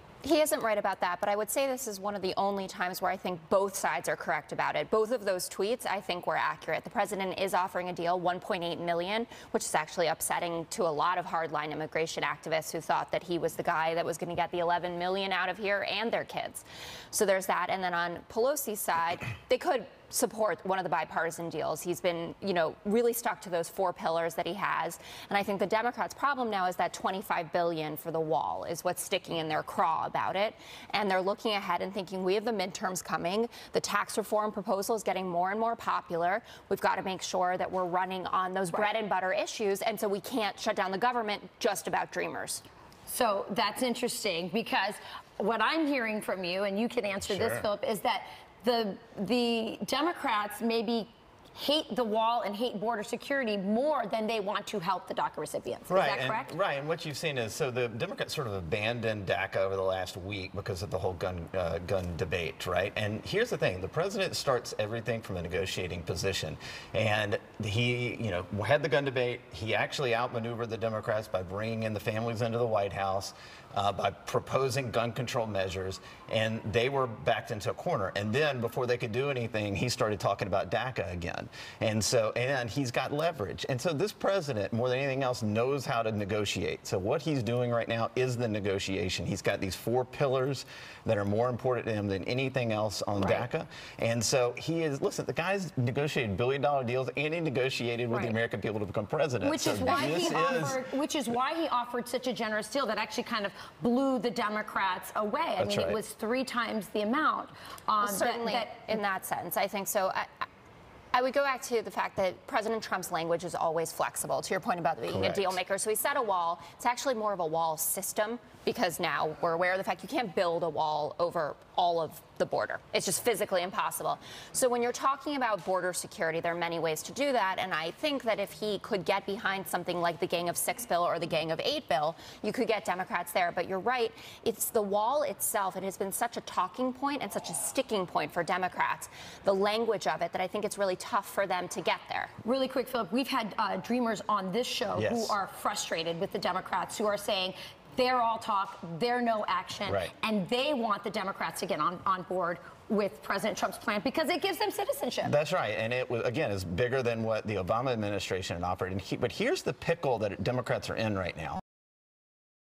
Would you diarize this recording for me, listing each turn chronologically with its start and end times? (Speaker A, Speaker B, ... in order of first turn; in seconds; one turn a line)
Speaker A: 0.2-42.6
Speaker B: 43.1-56.5
Speaker C: 47.2-47.7
Speaker C: 55.9-100.8
Speaker B: 93.2-93.5
Speaker B: 98.1-98.4
Speaker B: 99.4-108.9
Speaker A: 99.8-100.6
Speaker C: 105.6-106.0
Speaker A: 108.0-110.5
Speaker A: 111.1-142.3
Speaker C: 115.1-115.6
Speaker B: 142.4-155.3
Speaker C: 145.0-145.4
Speaker C: 149.9-150.1
Speaker C: 155.2-161.6